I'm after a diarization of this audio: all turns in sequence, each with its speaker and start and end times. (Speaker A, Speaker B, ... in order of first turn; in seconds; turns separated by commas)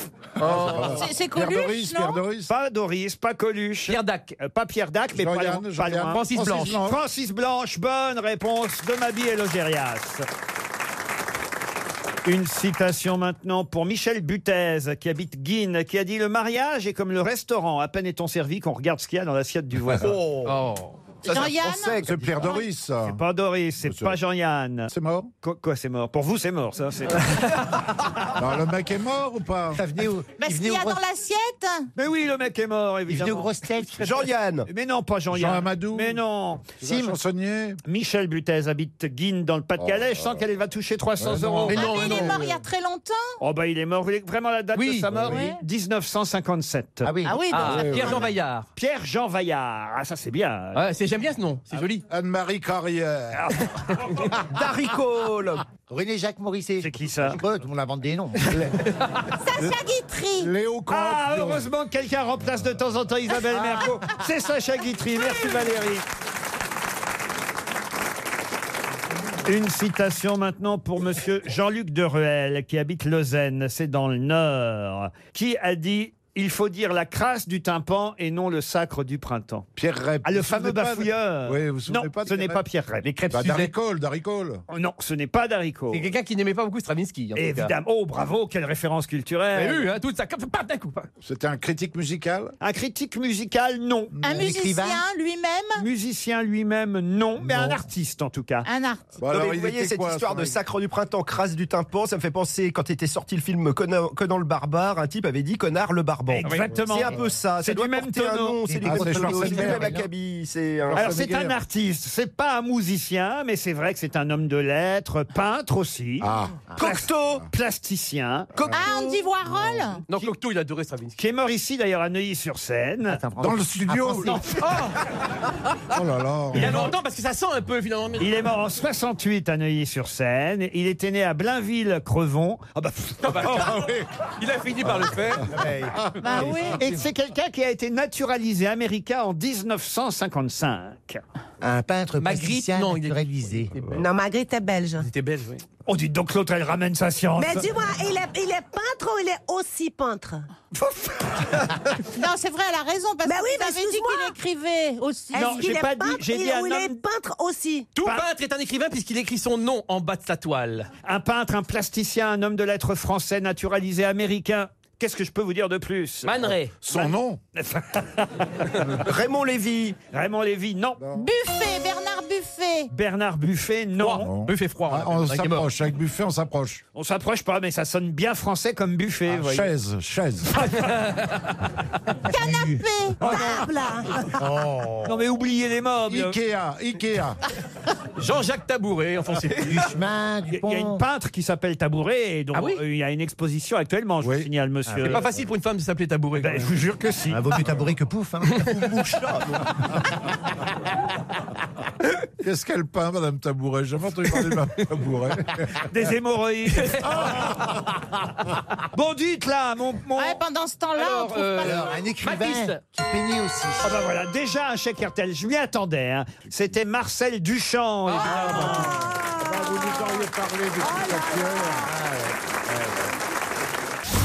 Speaker A: 0.4-2.5, Speaker B: 0.4-1.0, Speaker C: 0.5-2.2, Speaker D: 2.5-10.2, Speaker B: 3.9-4.3, Speaker A: 5.1-7.0, Speaker B: 6.1-6.8, Speaker D: 12.2-20.1, Speaker E: 20.0-20.6, Speaker B: 20.4-21.1, Speaker E: 21.2-22.5, Speaker C: 21.2-22.6, Speaker A: 22.0-23.2, Speaker D: 23.0-24.9, Speaker A: 23.9-24.2, Speaker A: 24.9-25.3, Speaker D: 25.4-27.6, Speaker A: 28.3-29.8, Speaker F: 29.7-31.0, Speaker C: 30.4-31.9, Speaker D: 32.0-33.5, Speaker F: 33.1-34.1, Speaker E: 34.0-34.6, Speaker D: 34.0-36.6, Speaker A: 35.3-36.2, Speaker A: 36.8-37.8, Speaker F: 36.8-37.2, Speaker D: 37.9-42.2, Speaker A: 39.8-40.5, Speaker A: 41.2-42.4, Speaker C: 41.7-43.3, Speaker E: 41.9-42.3, Speaker D: 43.4-47.1, Speaker F: 45.1-45.4, Speaker C: 45.2-45.6, Speaker F: 47.0-47.9, Speaker C: 47.2-48.2, Speaker B: 47.5-48.7, Speaker A: 47.6-48.2, Speaker D: 48.8-50.9, Speaker B: 50.7-52.0, Speaker A: 52.1-53.6, Speaker D: 53.3-54.2, Speaker E: 54.4-55.6, Speaker F: 55.9-58.7, Speaker D: 56.8-57.4, Speaker C: 59.4-60.5, Speaker A: 60.4-61.7, Speaker D: 60.9-66.0, Speaker D: 69.5-79.7, Speaker A: 79.8-82.6, Speaker D: 80.2-83.0, Speaker E: 83.1-83.7, Speaker A: 83.3-84.6, Speaker D: 84.7-86.0, Speaker B: 85.9-87.7, Speaker D: 87.3-89.8, Speaker B: 89.5-91.1, Speaker A: 91.2-92.5, Speaker D: 92.6-94.1, Speaker C: 94.2-95.8, Speaker F: 94.2-95.0, Speaker D: 95.8-98.7, Speaker A: 97.4-97.8, Speaker C: 98.6-99.1, Speaker A: 99.2-100.5, Speaker E: 99.2-111.2, Speaker D: 106.3-108.6, Speaker A: 106.7-107.0, Speaker F: 108.6-110.0, Speaker A: 108.8-110.0, Speaker A: 110.8-111.6, Speaker D: 110.9-118.5, Speaker A: 116.2-116.7, Speaker F: 116.7-117.0, Speaker E: 116.8-117.4, Speaker A: 118.6-118.8, Speaker C: 118.6-120.0, Speaker B: 120.1-121.2, Speaker D: 121.2-123.2, Speaker F: 123.1-124.4, Speaker A: 123.4-124.4, Speaker B: 124.6-124.9, Speaker A: 125.9-126.9, Speaker B: 126.5-128.4, Speaker D: 128.2-133.8, Speaker B: 133.2-135.5, Speaker F: 135.4-137.0, Speaker C: 136.2-136.8, Speaker D: 136.8-141.2, Speaker F: 141.6-143.7, Speaker B: 142.2-144.0, Speaker G: 143.9-145.1, Speaker B: 145.0-145.6, Speaker D: 145.8-147.7, Speaker G: 147.4-150.4, Speaker C: 152.1-155.5, Speaker G: 153.2-154.4, Speaker G: 155.3-157.9, Speaker D: 155.3-157.0, Speaker B: 157.9-160.9, Speaker D: 158.0-158.2, Speaker D: 161.0-168.9, Speaker B: 166.2-166.7, Speaker A: 166.8-167.4, Speaker E: 169.0-170.0, Speaker D: 170.1-171.0, Speaker C: 171.1-172.9, Speaker D: 172.9-174.3, Speaker B: 174.0-175.7, Speaker A: 174.2-176.8, Speaker D: 176.9-179.7, Speaker A: 179.2-180.6, Speaker C: 182.3-183.2, Speaker F: 182.3-182.8, Speaker G: 183.2-184.3, Speaker F: 184.3-185.2, Speaker D: 185.0-186.4, Speaker A: 186.1-187.4, Speaker B: 188.2-189.9, Speaker F: 189.6-191.0, Speaker D: 190.5-195.2, Speaker B: 192.5-192.8, Speaker A: 194.2-194.5, Speaker F: 194.9-195.2, Speaker B: 195.0-196.7, Speaker D: 196.4-197.4, Speaker F: 197.3-199.4, Speaker A: 202.4-205.8, Speaker D: 205.9-207.3, Speaker D: 208.9-210.4, Speaker C: 210.2-212.0, Speaker B: 210.9-212.8, Speaker F: 211.6-214.0, Speaker D: 213.8-219.0, Speaker B: 218.1-218.9, Speaker A: 218.3-221.9, Speaker F: 221.8-223.0